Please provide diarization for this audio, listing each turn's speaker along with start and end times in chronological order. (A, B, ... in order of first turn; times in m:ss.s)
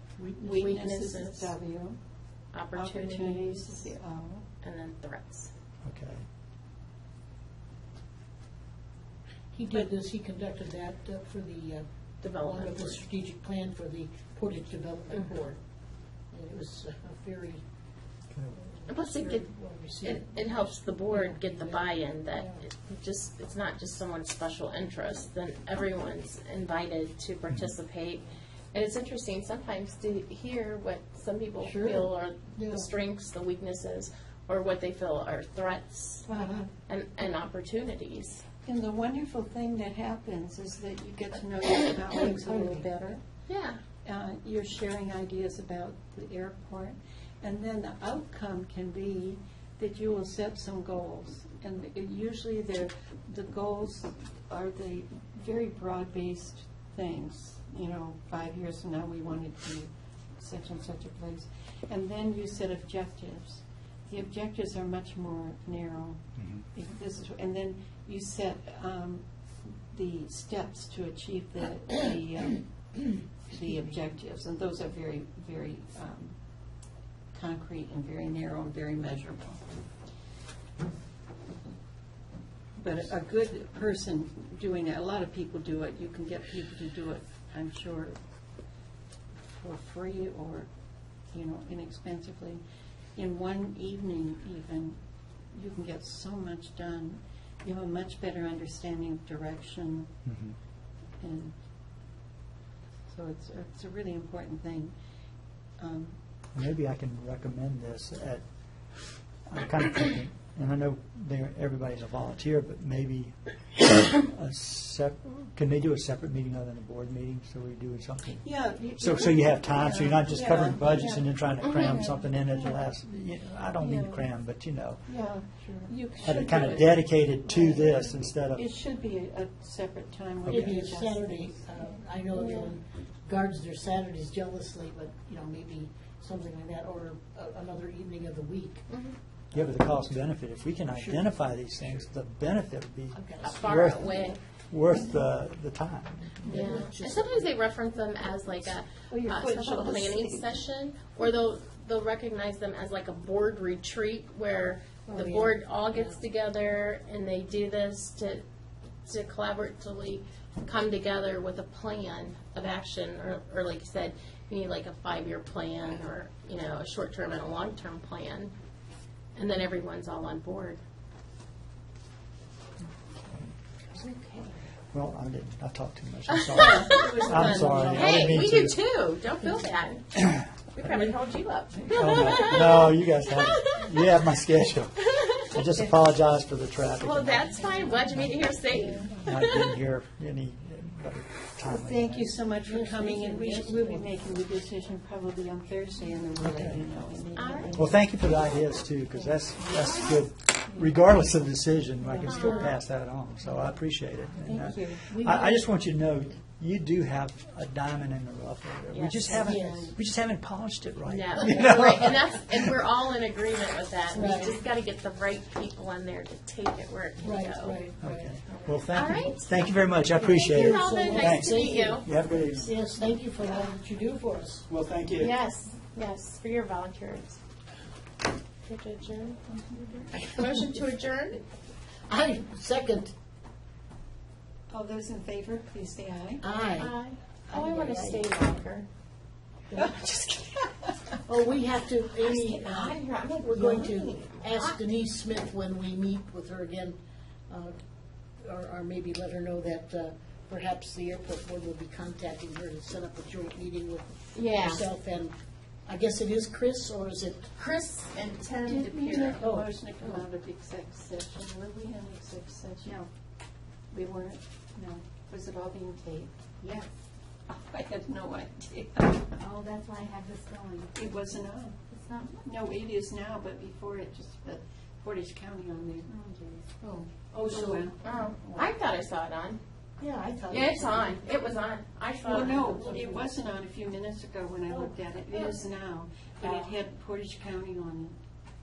0:00.2-0:00.6 A
0:00.4-0:02.0 B
0:00.4-0:01.5 C
0:02.5-0:03.9 C
0:02.7-0:04.5 B
0:04.6-0:05.5 C
0:05.8-0:06.2 D
0:09.5-0:15.6 A
0:12.2-0:13.0 C
0:16.3-0:17.6 A
0:18.6-0:22.6 A
0:18.9-0:19.5 C
0:20.0-0:36.3 C
0:31.6-0:32.9 A
0:36.3-0:36.7 A
0:36.9-0:38.4 C
0:38.6-0:43.2 B
0:42.2-0:42.8 A
0:43.5-0:43.8 C
0:44.0-1:06.2 B
1:06.4-1:06.6 D
1:06.7-1:09.2 B
1:09.9-1:16.4 B
1:17.3-1:19.6 B
1:22.8-1:28.2 B
1:29.4-1:30.7 B
1:31.3-1:32.6 B
1:33.2-1:35.0 B
1:35.5-1:40.1 B
1:40.2-1:40.6 D
1:41.2-1:41.6 B
1:43.1-1:44.9 B
1:45.8-1:46.1 B
1:46.5-1:48.4 D
1:49.4-2:05.0 D
1:58.4-2:02.8 B
2:01.6-2:02.0 C
2:05.1-2:11.9 B
2:05.6-2:05.9 A
2:06.2-2:08.6 D
2:10.4-2:10.7 D
2:10.4-2:18.8 A
2:12.3-2:12.7 C
2:18.9-2:19.2 C
2:19.5-2:19.8 A
2:19.5-2:26.8 D
2:20.9-2:21.4 A
2:23.1-2:23.6 A
2:23.4-2:24.4 C
2:26.4-2:27.5 A
2:26.4-2:38.4 C
2:29.1-2:30.5 B
2:35.1-2:35.6 A
2:39.0-2:48.5 C
2:49.3-2:50.8 C
2:53.9-2:54.5 C
2:54.9-2:58.8 D
2:56.3-3:04.3 C
2:56.5-2:58.3 B
2:57.3-2:58.4 A
3:00.3-3:01.1 D
3:01.8-3:08.4 D
3:05.0-3:05.6 C
3:06.9-3:09.7 C
3:09.0-3:12.4 D
3:11.6-3:18.1 B
3:12.6-3:14.1 A
3:16.4-3:16.8 D
3:17.4-3:17.8 C
3:17.7-3:32.7 D
3:22.0-3:22.6 B
3:22.2-3:22.8 C
3:22.3-3:22.7 A
3:24.4-3:25.6 B
3:28.9-3:29.6 C
3:29.3-3:29.9 A
3:29.4-3:29.9 B
3:31.0-3:37.9 C
3:34.1-3:34.6 A
3:37.2-3:39.1 A
3:38.0-3:42.8 D
3:38.5-3:39.5 C
3:40.2-3:42.1 C
3:40.2-3:44.7 A
3:44.7-3:45.3 D
3:45.2-3:47.4 C
3:48.6-3:51.4 C
3:52.1-3:53.1 A
3:54.7-3:56.4 B
3:56.4-3:56.9 A
3:56.7-3:58.9 C
3:57.5-3:58.2 A
3:59.7-4:00.0 A
3:59.7-4:01.0 B
4:01.2-4:07.0 A
4:02.2-4:04.8 C
4:07.5-4:07.7 A
4:08.4-4:15.3 A
4:14.3-4:14.8 C
4:15.8-4:17.5 A
4:17.6-4:19.4 C
4:18.6-4:23.1 B
4:19.3-4:19.7 A
4:23.9-4:26.9 B
4:27.5-4:29.4 B
4:29.4-4:30.9 E
4:30.9-4:31.8 B
4:31.9-4:32.4 E
4:32.4-4:36.2 B
4:36.1-4:36.6 E
4:36.8-4:38.7 B
4:37.3-4:37.9 A
4:38.0-4:39.6 C
4:40.0-4:41.2 A
4:40.5-4:42.9 C
4:42.2-4:48.2 B
4:42.5-4:43.4 A
4:45.3-4:45.6 C
4:46.4-4:46.7 C